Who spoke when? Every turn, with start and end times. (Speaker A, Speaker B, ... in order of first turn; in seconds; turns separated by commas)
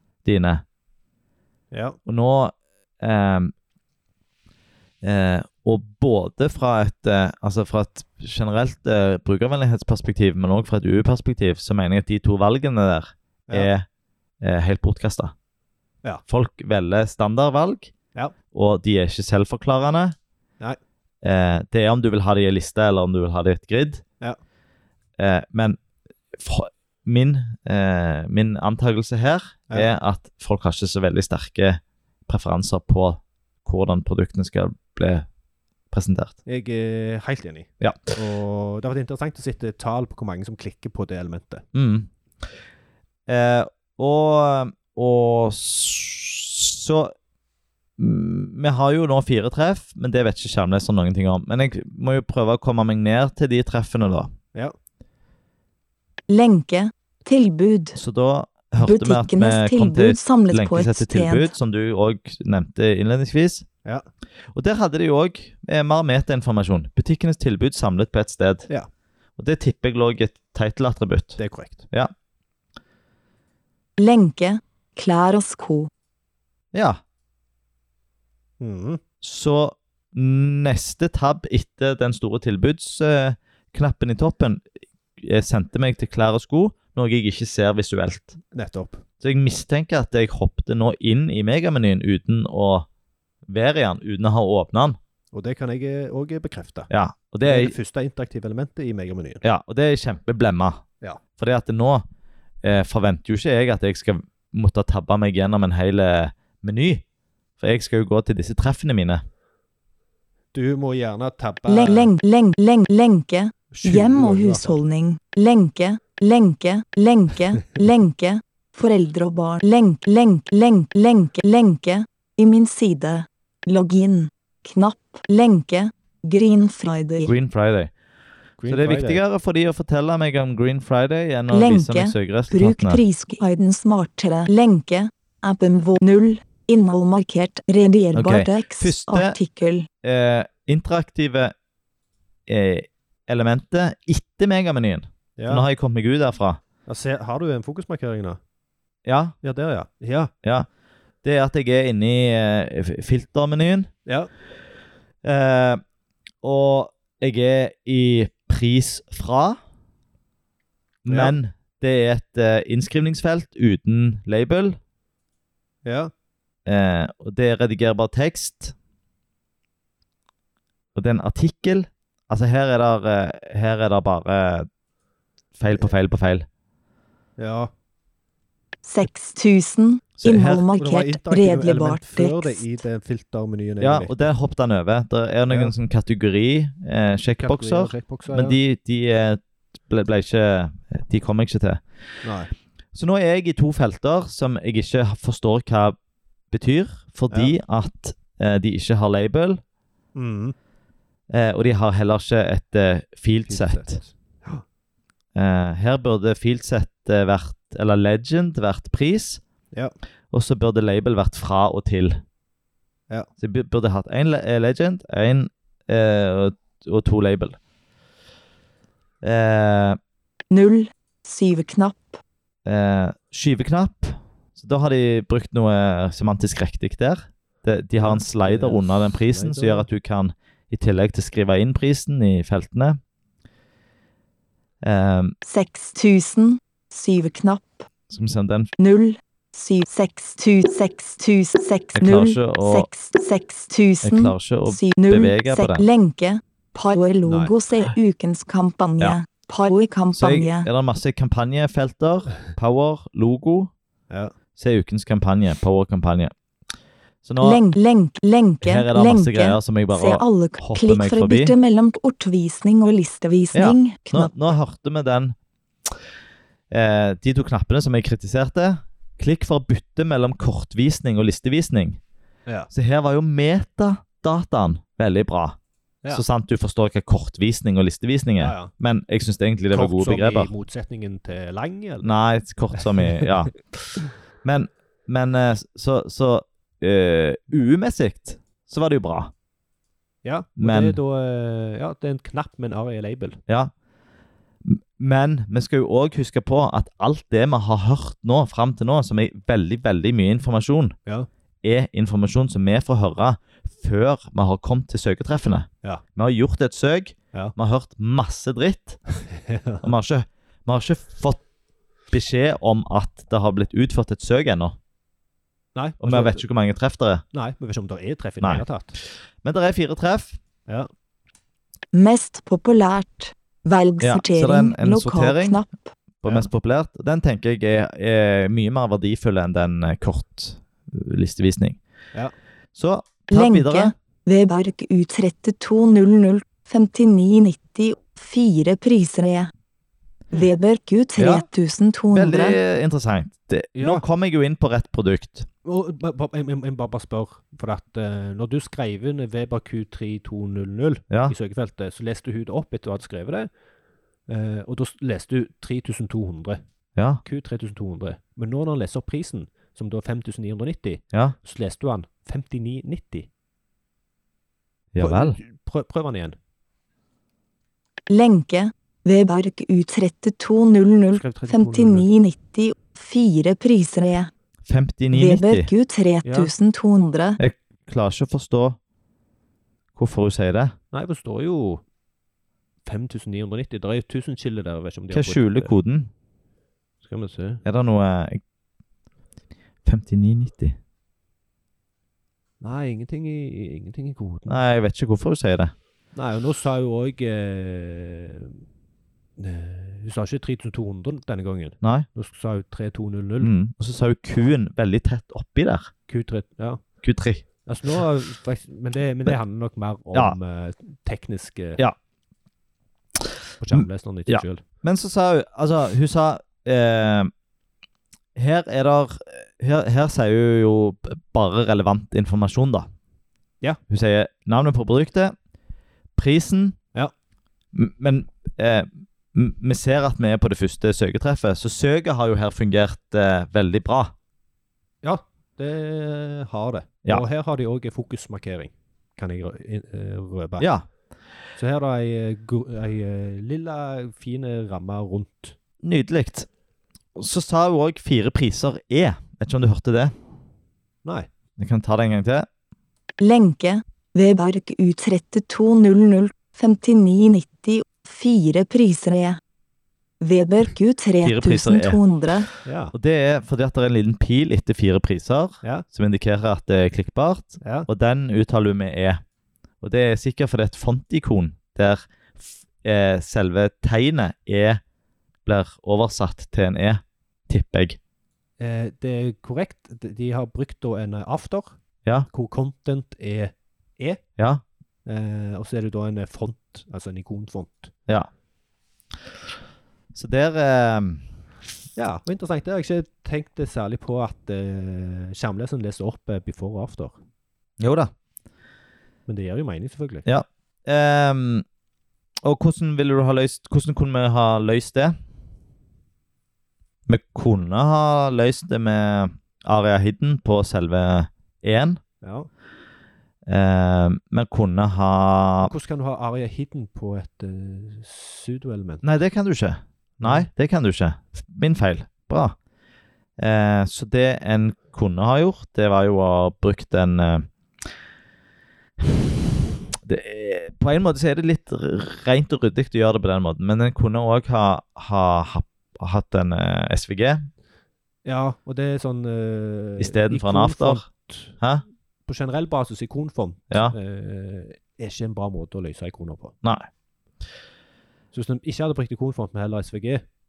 Speaker A: 0.2-0.6, Speaker B: 1.7-2.0, Speaker A: 2.0-3.5, Speaker A: 5.0-13.8, Speaker A: 14.4-15.3, Speaker A: 16.3-17.9, Speaker A: 18.5-20.1, Speaker A: 21.2-24.0, Speaker A: 25.2-25.8, Speaker A: 26.4-35.3, Speaker A: 35.9-36.4, Speaker B: 36.5-41.6, Speaker A: 37.8-38.1, Speaker A: 41.7-42.1, Speaker A: 43.3-47.1, Speaker A: 48.0-54.3, Speaker C: 56.3-58.0, Speaker A: 58.0-63.6, Speaker C: 58.8-61.5, Speaker A: 64.5-68.7, Speaker A: 69.4-71.4, Speaker B: 71.4-71.9, Speaker C: 74.0-75.9, Speaker A: 76.7-77.0, Speaker B: 78.6-79.0, Speaker A: 79.2-84.6, Speaker A: 85.2-88.4, Speaker B: 88.5-89.0, Speaker A: 89.2-92.9, Speaker A: 93.5-95.0, Speaker B: 95.3-96.9, Speaker A: 96.9-97.7, Speaker B: 97.4-99.4, Speaker A: 99.4-100.8, Speaker A: 101.4-102.0, Speaker A: 102.6-107.0, Speaker A: 107.6-109.2, Speaker B: 110.5-112.1, Speaker C: 111.7-127.3, Speaker B: 113.7-114.8, Speaker A: 127.2-127.9, Speaker B: 128.6-129.2, Speaker A: 128.7-133.0, Speaker C: 131.5-139.9, Speaker A: 138.1-139.4, Speaker A: 140.0-141.5, Speaker A: 142.5-146.6, Speaker B: 145.4-145.7, Speaker B: 146.8-148.4, Speaker A: 149.0-149.3, Speaker B: 149.4-150.3, Speaker A: 151.2-153.9, Speaker A: 155.2-155.8, Speaker A: 156.4-159.6, Speaker A: 161.0-164.8, Speaker B: 161.1-161.3, Speaker B: 165.8-166.1, Speaker A: 166.7-168.7, Speaker A: 170.9-174.7, Speaker A: 175.6-176.4, Speaker B: 177.4-177.7, Speaker C: 178.8-182.6, Speaker A: 180.2-180.6, Speaker B: 180.6-184.1, Speaker A: 183.8-191.8, Speaker B: 187.4-188.6, Speaker B: 192.2-192.5, Speaker A: 192.9-196.0, Speaker A: 196.5-199.6, Speaker B: 200.1-200.5, Speaker A: 201.3-204.0, Speaker B: 203.5-204.6, Speaker A: 205.3-209.4, Speaker A: 210.3-212.2, Speaker A: 213.4-217.6, Speaker A: 219.2-220.0, Speaker C: 220.5-222.2, Speaker A: 222.6-233.0, Speaker B: 228.0-229.9, Speaker A: 234.8-235.3, Speaker C: 235.4-237.9, Speaker A: 238.1-238.7, Speaker C: 238.8-250.7, Speaker A: 241.9-242.9, Speaker A: 244.0-245.8, Speaker B: 247.2-247.5, Speaker A: 250.1-253.7, Speaker A: 254.6-256.3, Speaker A: 257.2-257.6, Speaker C: 257.4-264.3, Speaker A: 258.6-261.5, Speaker A: 263.5-265.3, Speaker A: 266.7-272.0, Speaker A: 272.7-275.6, Speaker A: 276.1-280.5, Speaker B: 278.4-278.7, Speaker B: 279.7-282.1, Speaker A: 282.0-283.6, Speaker B: 283.0-283.2, Speaker A: 284.4-289.3, Speaker B: 290.2-293.4, Speaker A: 290.6-291.0, Speaker A: 294.6-300.9, Speaker A: 301.6-309.0, Speaker B: 309.2-309.9, Speaker A: 309.8-311.4, Speaker A: 312.1-314.8, Speaker B: 315.7-316.4, Speaker A: 316.0-317.2, Speaker B: 317.3-319.0, Speaker A: 319.4-320.4, Speaker C: 321.9-325.9, Speaker A: 324.0-325.6, Speaker A: 326.2-331.8, Speaker A: 332.7-333.9, Speaker C: 333.3-339.5, Speaker C: 340.3-342.6, Speaker A: 341.2-341.4, Speaker A: 342.1-345.5, Speaker B: 343.7-344.0, Speaker B: 345.6-353.5, Speaker B: 354.3-356.6, Speaker A: 356.9-357.2, Speaker B: 357.2-363.3, Speaker A: 364.9-365.4, Speaker B: 365.0-366.4, Speaker C: 368.1-374.3, Speaker B: 371.1-372.1, Speaker A: 374.6-375.7, Speaker C: 375.1-377.4, Speaker B: 376.2-376.5, Speaker A: 377.4-378.8, Speaker A: 379.9-380.7, Speaker B: 380.9-381.8, Speaker B: 382.9-385.7, Speaker A: 385.1-386.1, Speaker B: 387.0-387.6, Speaker A: 387.6-388.4, Speaker A: 389.8-390.8, Speaker B: 392.6-394.6, Speaker A: 394.5-395.7, Speaker B: 396.1-398.6, Speaker B: 399.4-403.5, Speaker A: 401.8-402.1, Speaker A: 403.4-405.9, Speaker B: 406.1-406.8, Speaker A: 407.0-407.4, Speaker B: 407.6-411.8, Speaker B: 413.6-414.6, Speaker A: 413.7-417.3, Speaker A: 418.3-422.9, Speaker A: 423.9-425.3, Speaker A: 426.1-426.8, Speaker A: 427.7-434.1, Speaker B: 435.0-440.7, Speaker A: 440.6-440.8, Speaker B: 441.6-445.6, Speaker A: 445.8-446.5, Speaker A: 447.1-450.1, Speaker A: 451.6-452.4, Speaker C: 453.2-459.4, Speaker C: 460.2-462.5, Speaker A: 461.2-462.0, Speaker B: 462.6-462.9, Speaker A: 462.9-469.2, Speaker B: 467.6-467.9, Speaker A: 469.8-474.8, Speaker A: 475.4-478.0, Speaker B: 478.6-481.8, Speaker B: 482.3-484.2, Speaker A: 484.4-484.6, Speaker B: 485.1-487.9, Speaker A: 490.1-491.2, Speaker B: 491.9-497.2, Speaker A: 497.8-498.1, Speaker B: 499.3-500.2, Speaker A: 500.2-501.6, Speaker A: 502.4-505.1, Speaker A: 507.1-512.0, Speaker B: 512.2-512.5, Speaker A: 513.5-515.7, Speaker B: 515.6-519.0, Speaker A: 519.0-522.5, Speaker B: 520.2-520.5, Speaker A: 523.4-527.5, Speaker A: 529.0-529.3, Speaker A: 529.9-537.5, Speaker B: 538.2-541.6, Speaker A: 540.0-541.0, Speaker B: 542.3-546.5, Speaker A: 546.6-546.9, Speaker B: 548.3-550.2